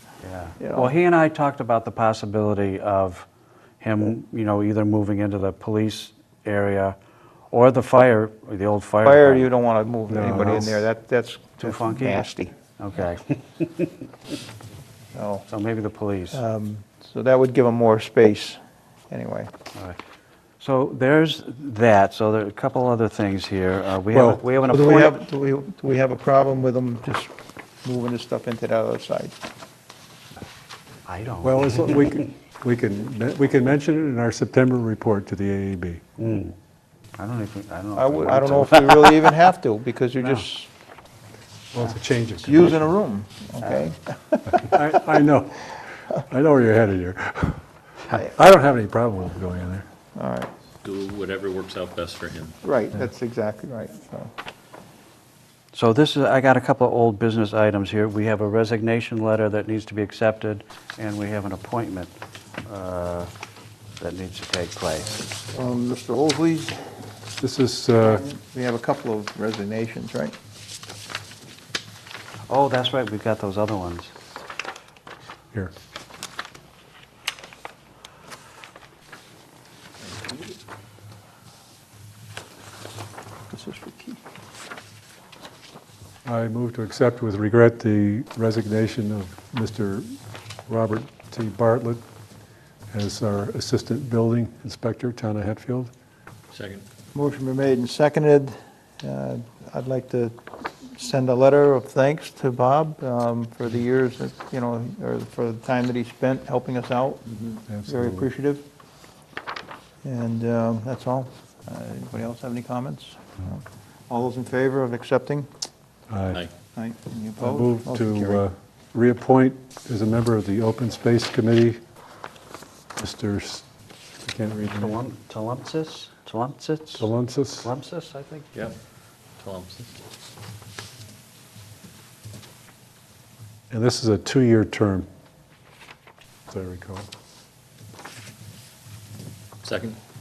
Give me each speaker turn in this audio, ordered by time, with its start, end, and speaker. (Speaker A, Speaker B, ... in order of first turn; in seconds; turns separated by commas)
Speaker A: 0.2-3.2, Speaker B: 0.6-0.9, Speaker A: 3.8-7.0, Speaker A: 7.5-9.5, Speaker B: 9.0-12.5, Speaker C: 10.1-10.8, Speaker A: 11.6-13.8, Speaker B: 15.1-15.4, Speaker A: 15.5-16.4, Speaker B: 16.3-19.5, Speaker A: 20.6-25.1, Speaker C: 24.1-24.4, Speaker B: 24.7-29.3, Speaker A: 31.1-31.9, Speaker C: 31.4-36.0, Speaker A: 36.2-36.5, Speaker A: 37.2-39.3, Speaker B: 37.9-40.7, Speaker C: 41.7-42.7, Speaker B: 42.4-45.0, Speaker C: 44.5-49.9, Speaker B: 50.1-50.5, Speaker D: 50.8-52.5, Speaker B: 52.6-54.3, Speaker A: 55.7-62.1, Speaker A: 62.6-63.3, Speaker A: 64.0-65.1, Speaker B: 65.5-67.0, Speaker C: 67.4-68.2, Speaker B: 68.0-70.3, Speaker A: 72.5-74.1, Speaker D: 80.0-80.5, Speaker B: 83.5-84.2, Speaker C: 86.2-90.2, Speaker C: 90.7-92.0, Speaker C: 92.9-95.9, Speaker D: 96.5-96.8, Speaker B: 97.1-107.3, Speaker C: 107.7-108.2, Speaker B: 107.8-108.6, Speaker B: 110.0-115.5, Speaker C: 116.1-116.4, Speaker B: 116.7-118.4, Speaker C: 117.4-121.8, Speaker C: 123.0-123.7, Speaker C: 124.2-125.0, Speaker A: 124.7-127.1, Speaker C: 127.0-127.7, Speaker A: 127.6-128.5, Speaker D: 129.4-129.9, Speaker C: 133.7-135.1, Speaker C: 136.5-137.1, Speaker D: 139.6-140.0